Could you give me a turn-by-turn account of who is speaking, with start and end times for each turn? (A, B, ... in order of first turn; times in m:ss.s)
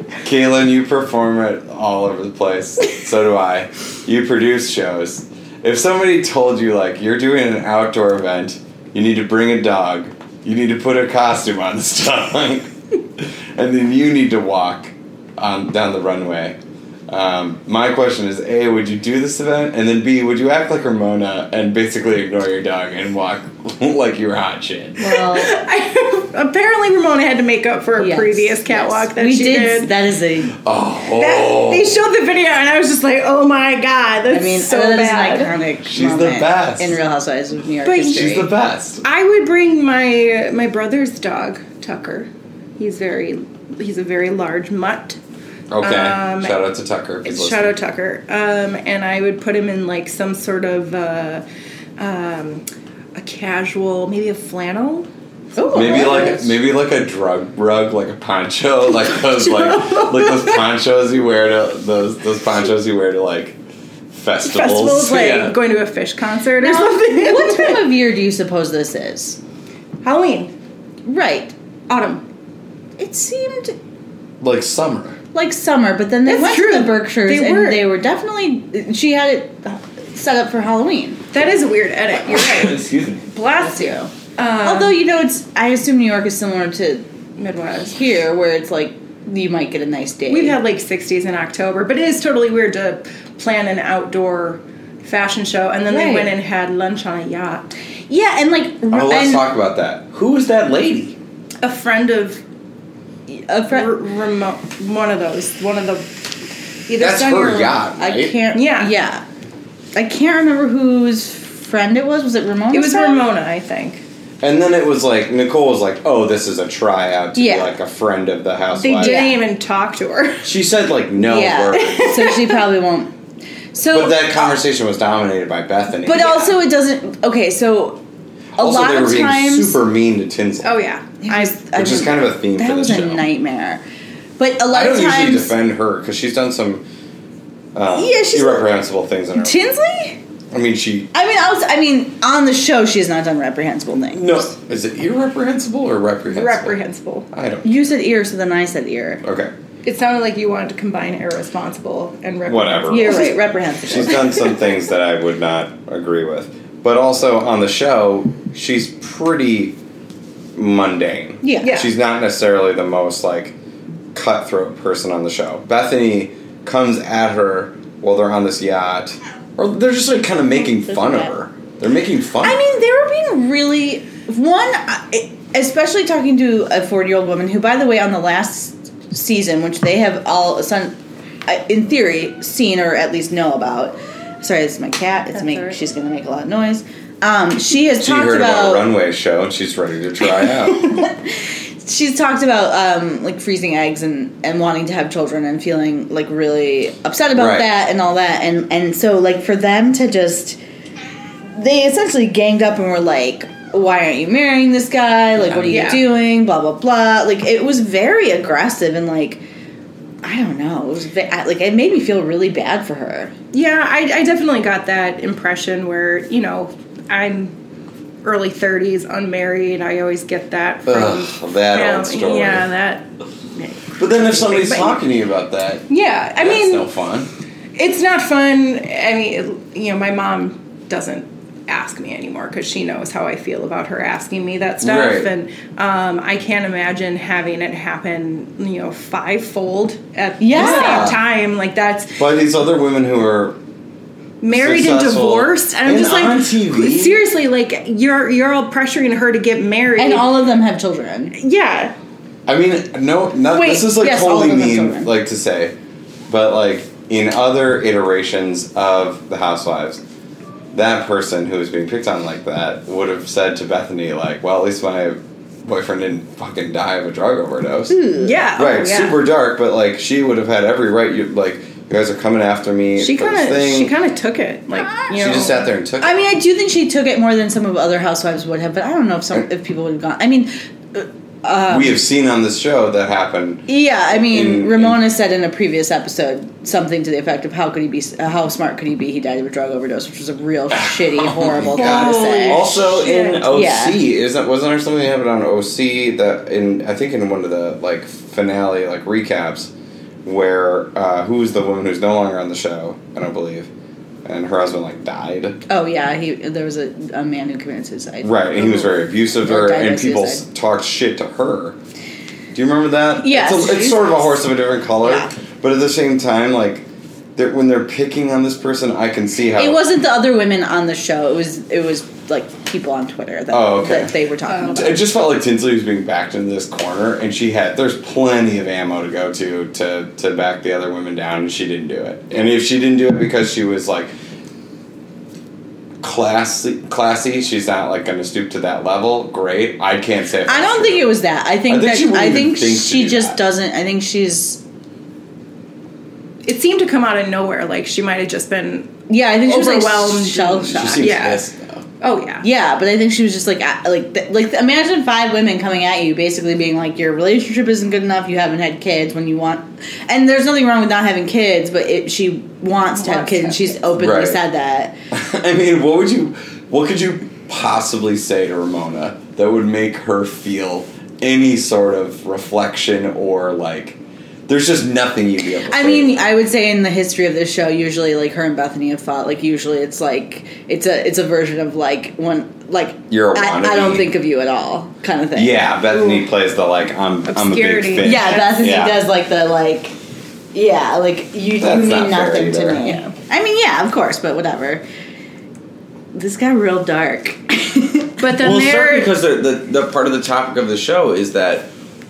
0:00.2-0:16.5 A
0:17.1-0:25.0 A
0:25.0-0:25.6 B
0:25.1-0:29.9 C
0:28.0-0:30.6 B
0:30.6-0:32.0 A
0:31.1-0:35.5 C
0:34.3-0:38.5 B
0:35.9-0:37.0 A
0:37.8-0:38.2 C
0:38.1-0:39.0 A
0:39.0-0:45.2 C
0:45.7-0:47.7 A
0:45.8-0:46.6 C
0:47.2-0:51.4 C
0:52.0-0:52.6 C
0:53.1-0:56.4 C
0:55.6-0:56.5 B
0:55.7-1:03.6 A
0:59.0-1:00.6 C
1:04.1-1:05.6 A
1:04.4-1:07.9 C
1:06.6-1:09.4 B
1:10.0-1:10.5 C
1:11.0-1:11.5 B
1:11.9-1:12.2 C
1:13.0-1:13.8 B
1:14.4-1:15.2 A
1:15.3-1:21.2 B
1:16.2-1:17.8 C
1:21.3-1:25.0 C
1:22.2-1:23.3 A
1:23.6-1:24.1 B
1:24.6-1:27.0 B
1:27.4-1:27.9 C
1:27.9-1:30.6 B
1:30.3-1:37.7 C
1:35.9-1:36.3 B
1:38.1-1:39.5 B
1:38.9-1:41.2 A
1:41.6-1:42.4 C
1:43.3-1:43.9 B
1:43.7-1:46.3 C
1:46.9-1:47.8 C
1:47.0-1:48.3 A
1:48.0-1:49.2 B
1:48.5-1:48.9 C
1:49.9-1:53.2 B
1:52.7-1:54.0 C
1:54.4-1:59.2 A
1:57.4-1:57.8 B
1:58.8-2:00.4 C
1:59.0-1:59.4 B
2:00.4-2:02.1 A
2:01.2-2:03.1 B
2:01.7-2:02.6 C
2:03.7-2:04.5 B
2:03.9-2:06.3 A
2:06.0-2:08.0 B
2:06.1-2:06.5 C
2:08.6-2:09.8 B
2:08.6-2:10.7 A
2:10.6-2:11.5 C
2:11.2-2:13.8 B
2:11.7-2:13.2 A
2:14.4-2:15.5 B
2:14.7-2:16.8 A
2:17.7-2:19.6 A
2:17.9-2:18.7 B
2:19.4-2:20.2 B
2:20.5-2:21.1 A
2:21.1-2:24.5 B
2:24.1-2:26.8 A
2:26.3-2:27.3 C
2:27.3-2:27.7 A
2:27.6-2:29.2 B
2:29.2-2:29.5 A
2:29.8-2:33.4 C
2:32.4-2:39.8 A
2:32.9-2:34.6 B
2:40.5-2:43.5 A
2:41.4-2:41.8 B
2:41.6-2:41.9 C
2:44.1-2:52.6 A
2:50.9-2:51.3 B
2:52.4-3:00.9 B
3:01.4-3:08.9 B
3:05.4-3:05.8 C
3:08.0-3:10.8 A
3:10.7-3:20.6 B
3:17.3-3:17.7 A
3:21.5-3:29.4 B
3:25.4-3:25.7 A
3:25.7-3:26.0 C
3:30.2-3:33.3 B
3:33.5-3:37.5 C
3:38.2-3:45.0 C
3:40.8-3:42.7 A
3:44.0-3:47.3 A
3:45.9-3:46.8 C
3:47.8-4:02.2 C
3:54.8-3:55.3 A
4:00.4-4:01.1 B
4:00.5-4:01.2 A
4:02.2-4:03.6 A
4:04.4-4:10.3 C
4:04.5-4:07.2 A
4:10.0-4:11.3 B
4:11.4-4:11.9 C
4:12.5-4:15.7 A
4:13.5-4:15.1 B
4:16.3-4:20.0 A
4:20.7-4:28.0 A
4:27.9-4:28.4 B
4:28.2-4:29.2 C
4:28.5-4:33.9 A
4:33.0-4:35.6 C
4:34.8-4:35.4 B
4:35.1-4:36.2 A
4:36.0-4:42.0 B
4:41.7-4:45.0 A
4:43.7-4:52.8 B
4:50.7-4:59.7 A
4:51.7-4:53.4 C
4:53.4-4:54.0 B
5:00.2-5:03.7 A
5:04.2-5:05.6 A
5:05.7-5:10.4 B
5:08.2-5:11.8 A
5:12.5-5:16.8 A
5:13.2-5:14.3 B
5:15.0-5:15.3 B
5:17.4-5:19.8 A
5:19.6-5:25.0 B
5:23.5-5:24.1 A
5:24.5-5:24.8 C
5:24.7-5:34.1 A
5:36.0-5:41.1 A
5:40.4-5:44.6 B
5:41.7-5:43.4 A
5:46.4-5:51.4 C
5:49.1-5:51.1 B
5:50.7-5:51.8 A
5:52.0-5:52.4 C
5:52.4-6:04.9 B
6:02.9-6:03.8 C
6:04.0-6:04.4 A
6:05.1-6:16.2 A
6:15.7-6:25.8 B
6:23.1-6:24.1 A
6:25.3-6:29.0 A
6:25.9-6:26.2 C
6:27.3-6:28.5 C
6:28.0-6:29.9 B
6:30.5-6:34.8 B
6:31.6-6:32.8 A
6:32.8-6:33.1 C
6:36.1-6:38.2 B
6:38.2-6:39.1 C
6:38.4-6:41.7 A